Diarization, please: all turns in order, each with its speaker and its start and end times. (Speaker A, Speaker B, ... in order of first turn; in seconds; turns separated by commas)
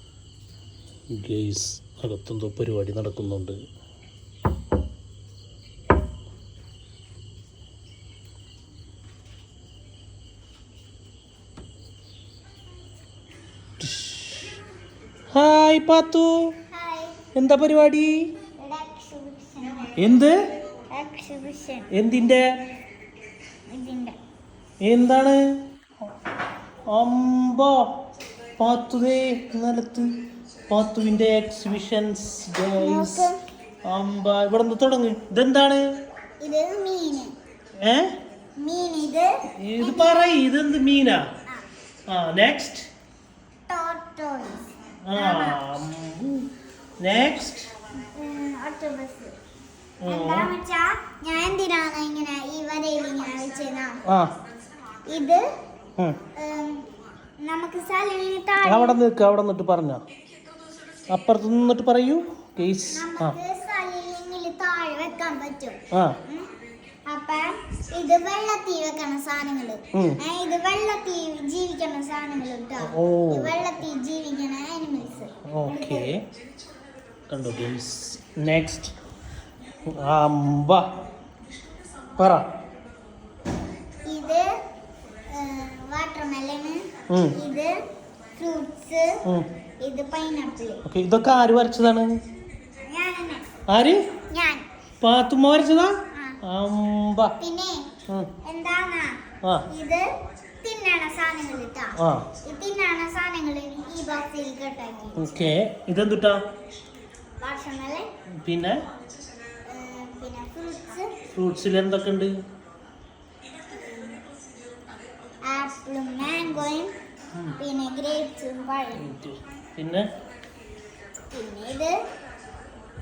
Speaker A: 1.1-3.6, Speaker A: 13.8-14.6, Speaker A: 15.3-16.5, Speaker B: 16.7-17.2, Speaker A: 17.3-18.4, Speaker B: 18.6-19.9, Speaker A: 19.9-20.4, Speaker B: 20.9-21.9, Speaker A: 21.9-22.5, Speaker B: 23.7-24.1, Speaker A: 24.8-25.6, Speaker A: 26.9-27.9, Speaker A: 28.6-33.3, Speaker B: 32.8-33.4, Speaker A: 33.9-35.8, Speaker B: 36.4-37.3, Speaker A: 37.8-38.1, Speaker B: 38.6-40.4, Speaker A: 39.6-41.2, Speaker A: 42.1-42.9, Speaker B: 43.7-45.6, Speaker A: 45.1-47.7, Speaker B: 48.0-49.3, Speaker A: 50.0-50.5, Speaker B: 50.0-54.0, Speaker B: 55.0-55.4, Speaker B: 56.3-56.9, Speaker B: 57.4-59.0, Speaker A: 58.6-60.0, Speaker A: 61.1-63.4, Speaker B: 62.9-66.5, Speaker A: 65.9-66.2, Speaker B: 67.1-76.1, Speaker A: 69.9-70.2, Speaker A: 72.8-73.5, Speaker A: 75.5-76.2, Speaker A: 77.3-79.0, Speaker A: 79.9-80.9, Speaker A: 82.1-82.5, Speaker B: 84.0-84.5, Speaker B: 85.3-87.7, Speaker A: 87.1-87.4, Speaker B: 88.3-89.2, Speaker B: 89.8-90.8, Speaker A: 90.8-92.2, Speaker B: 92.8-93.5, Speaker A: 93.7-94.0, Speaker B: 94.3-94.7, Speaker A: 95.0-97.3, Speaker B: 97.4-100.1, Speaker B: 100.6-105.3, Speaker A: 102.0-102.3, Speaker A: 105.2-106.4, Speaker B: 107.4-108.1, Speaker A: 108.3-108.8, Speaker B: 109.6-111.2, Speaker A: 111.3-112.4, Speaker B: 113.7-114.1, Speaker B: 115.5-116.9, Speaker A: 117.3-117.6, Speaker B: 117.6-119.1, Speaker A: 119.0-120.1, Speaker B: 121.3-122.0